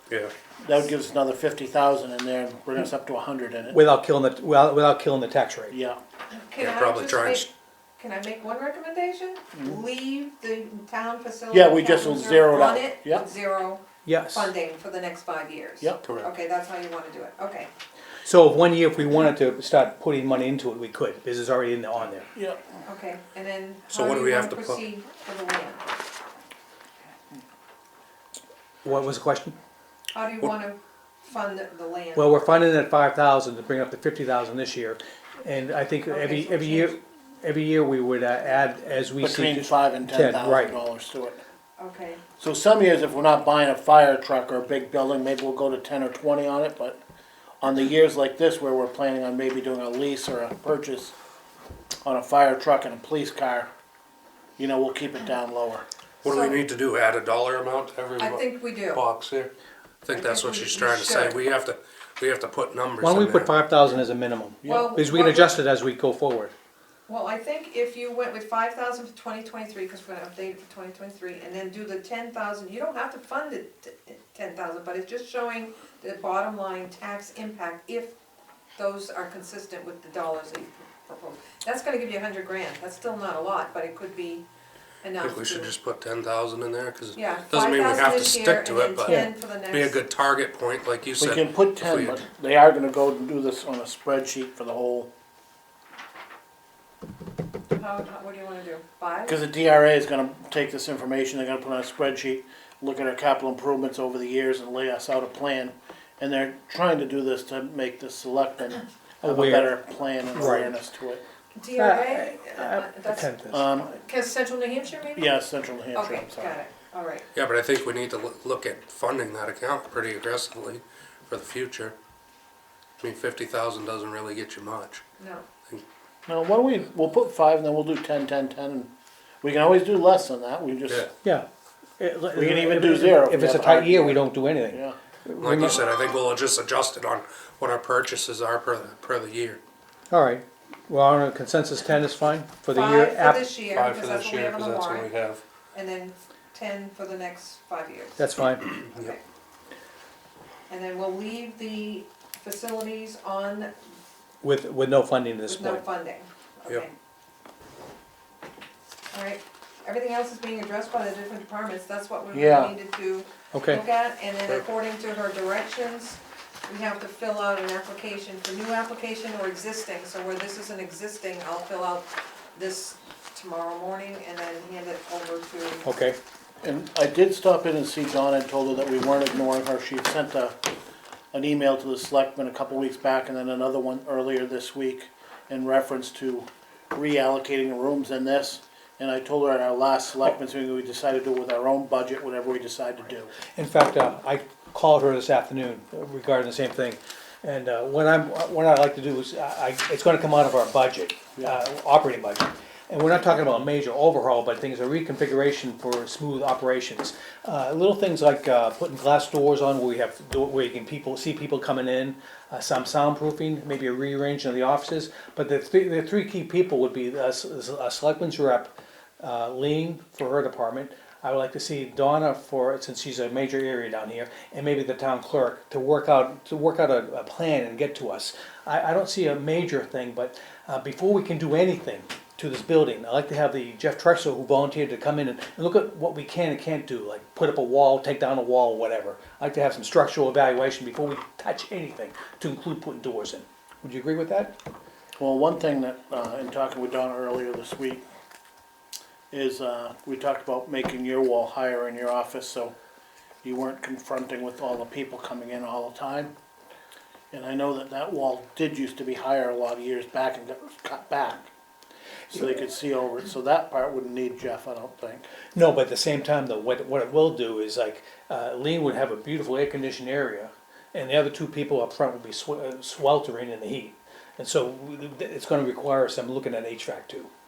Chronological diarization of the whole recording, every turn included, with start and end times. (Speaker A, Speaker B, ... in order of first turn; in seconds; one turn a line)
Speaker A: 0.6-3.8
Speaker B: 3.7-5.8
Speaker A: 5.7-6.0
Speaker C: 6.3-17.7
Speaker D: 6.6-7.5
Speaker A: 11.5-13.2
Speaker B: 14.1-14.5
Speaker D: 16.0-16.3
Speaker B: 18.2-22.3
Speaker C: 22.9-25.9
Speaker D: 23.9-24.8
Speaker B: 28.8-29.6
Speaker C: 30.1-32.6
Speaker B: 32.2-40.8
Speaker C: 36.1-37.0
Speaker A: 39.2-41.4
Speaker C: 41.8-42.2
Speaker A: 42.4-47.0
Speaker A: 47.6-51.1
Speaker A: 52.0-53.7
Speaker A: 54.6-55.9
Speaker D: 56.2-59.5
Speaker C: 56.2-56.6
Speaker C: 58.2-59.0
Speaker D: 60.0-63.5
Speaker C: 60.1-61.4
Speaker B: 63.0-66.5
Speaker A: 64.6-65.0
Speaker C: 64.7-65.6
Speaker C: 67.1-78.2
Speaker C: 78.8-84.5
Speaker C: 85.0-85.7
Speaker D: 85.2-92.2
Speaker C: 87.2-90.0
Speaker A: 91.2-95.1
Speaker C: 97.7-99.4
Speaker A: 99.3-111.2
Speaker B: 109.2-109.8
Speaker B: 110.3-110.7
Speaker C: 111.5-115.3
Speaker B: 111.8-113.7
Speaker A: 113.5-113.9
Speaker A: 115.2-116.6
Speaker C: 115.9-117.3
Speaker D: 117.3-122.0
Speaker D: 123.0-125.0
Speaker C: 125.2-125.5
Speaker A: 126.3-128.9
Speaker A: 129.4-131.1
Speaker B: 132.0-135.8
Speaker A: 132.3-135.0
Speaker D: 135.4-139.6
Speaker B: 140.1-143.5
Speaker C: 142.7-145.1
Speaker D: 143.7-145.4
Speaker C: 145.7-149.2
Speaker B: 148.2-148.7
Speaker D: 148.8-149.2
Speaker C: 150.7-153.7
Speaker B: 154.4-155.8
Speaker C: 155.5-156.9
Speaker C: 159.1-175.9
Speaker A: 162.3-162.7
Speaker B: 163.5-163.8
Speaker B: 175.8-176.2
Speaker A: 176.6-180.6
Speaker A: 181.3-193.3
Speaker B: 193.6-244.6
Speaker A: 245.2-248.0
Speaker A: 249.3-252.7
Speaker A: 253.4-256.3
Speaker A: 257.3-261.5
Speaker A: 262.3-265.3
Speaker B: 265.6-277.3